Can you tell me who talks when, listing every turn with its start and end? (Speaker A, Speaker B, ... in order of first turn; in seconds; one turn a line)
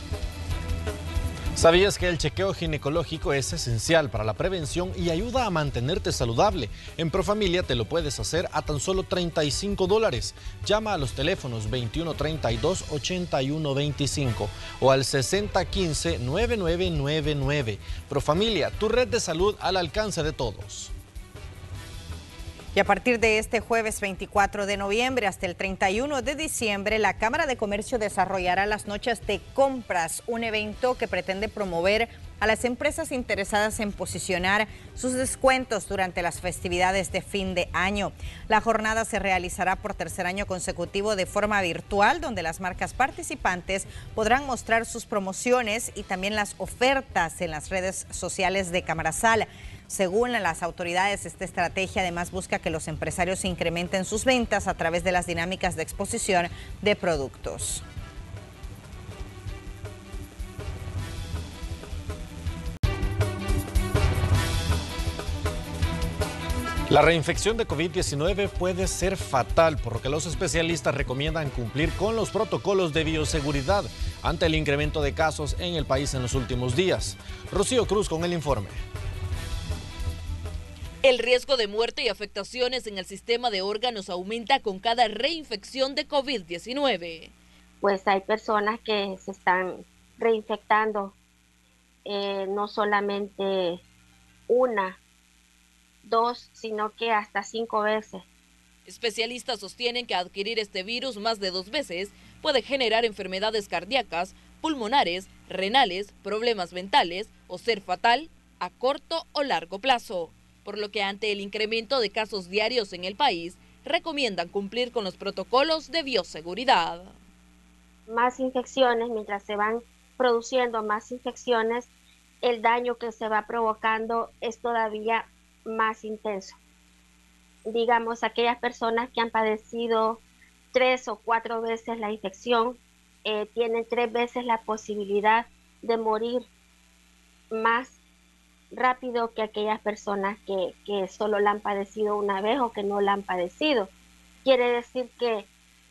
Speaker A: 1.6-20.9
Speaker B: 22.7-57.8
Speaker A: 66.9-78.8
Speaker C: 81.0-87.3
Speaker D: 87.8-91.2
Speaker D: 92.0-93.8
Speaker D: 94.5-95.0
Speaker D: 96.0-98.2
Speaker C: 98.9-117.2
Speaker D: 118.1-121.9
Speaker D: 122.4-126.6
Speaker D: 127.7-130.2
Speaker D: 130.7-136.5
Speaker D: 137.5-138.0
Speaker D: 138.7-143.9
Speaker D: 144.4-145.5